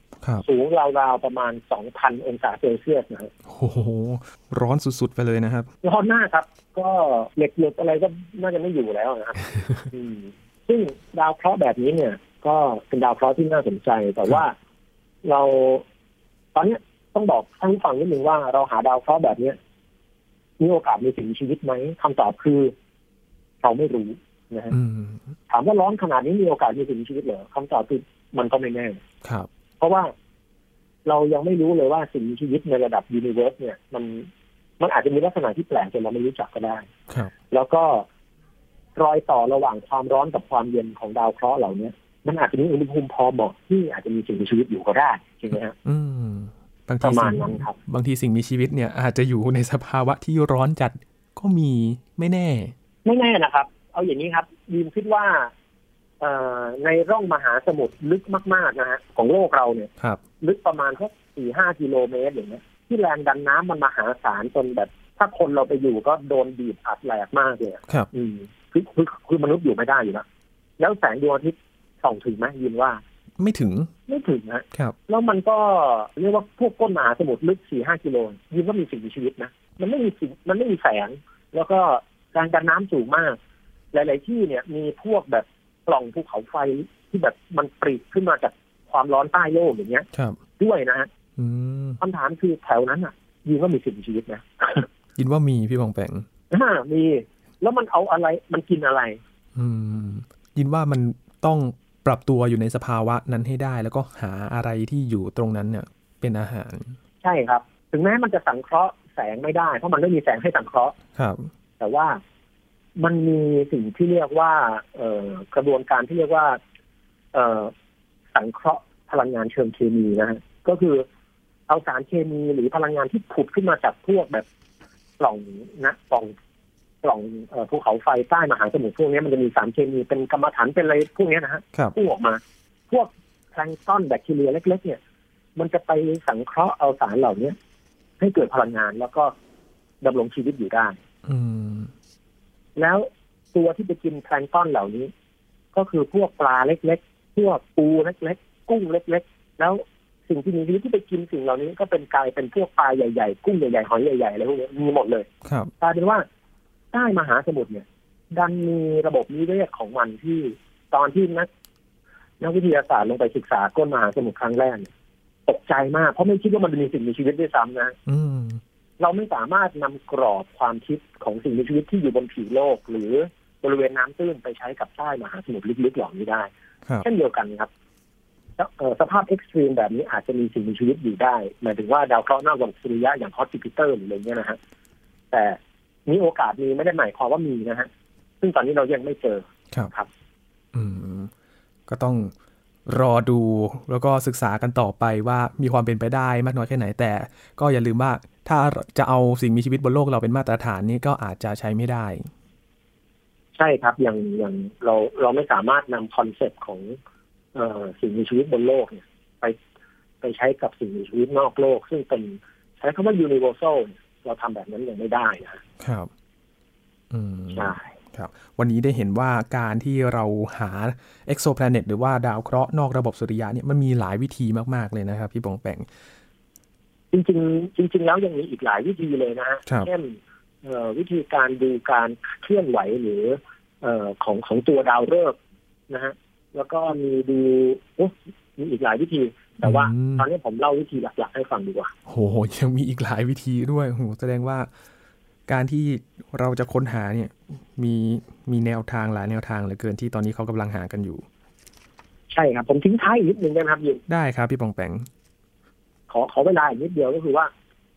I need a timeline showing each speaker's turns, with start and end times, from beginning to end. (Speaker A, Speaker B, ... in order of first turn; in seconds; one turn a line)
Speaker A: 0.4-3.3
Speaker B: 3.5-5.7
Speaker A: 5.8-14.6
Speaker A: 15.2-15.8
Speaker A: 16.5-19.6
Speaker A: 20.6-22.7
Speaker A: 23.6-24.7
Speaker B: 24.7-25.2
Speaker A: 25.5-29.0
Speaker A: 29.8-30.1
Speaker A: 31.1-34.3
Speaker A: 34.8-36.9
Speaker A: 37.5-38.1
Speaker A: 39.0-45.7
Speaker B: 45.8-52.7
Speaker A: 47.0-47.8
Speaker A: 53.0-55.5
Speaker A: 56.2-59.9
Speaker A: 60.4-70.2
Speaker A: 70.8-73.0
Speaker B: 73.4-73.9
Speaker A: 74.1-83.4
Speaker A: 83.9-90.0
Speaker B: 90.1-90.4
Speaker A: 90.6-91.1
Speaker B: 91.4-92.0
Speaker A: 92.0-94.9
Speaker B: 95.2-96.2
Speaker A: 96.5-99.2
Speaker B: 99.5-107.0
Speaker A: 107.2-111.0
Speaker B: 111.1-111.5
Speaker A: 111.8-112.2
Speaker A: 113.0-116.6
Speaker A: 117.3-117.7
Speaker A: 118.3-121.0
Speaker A: 121.7-124.5
Speaker A: 125.2-126.3
Speaker A: 127.0-135.0
Speaker A: 135.6-137.5
Speaker A: 138.2-139.3
Speaker A: 140.0-141.0
Speaker B: 141.2-141.9
Speaker A: 142.8-145.1
Speaker A: 145.7-155.3
Speaker B: 155.4-155.7
Speaker A: 155.8-156.2
Speaker A: 156.9-161.5
Speaker A: 162.4-164.9
Speaker A: 165.5-167.9
Speaker B: 168.1-168.6
Speaker A: 169.0-176.5
Speaker A: 177.0-177.7
Speaker A: 178.6-184.6
Speaker A: 185.3-187.9
Speaker A: 188.4-190.1
Speaker B: 190.7-191.3
Speaker B: 191.9-192.3
Speaker B: 192.9-202.3
Speaker A: 203.6-207.0
Speaker A: 207.5-209.5
Speaker A: 210.2-215.6
Speaker B: 215.8-216.1
Speaker B: 217.1-225.9
Speaker A: 217.5-217.9
Speaker A: 227.1-235.4
Speaker A: 235.9-241.9
Speaker B: 239.6-240.2
Speaker B: 242.1-244.7
Speaker B: 245.5-251.2
Speaker A: 252.3-254.0
Speaker B: 254.1-255.1
Speaker A: 256.1-257.5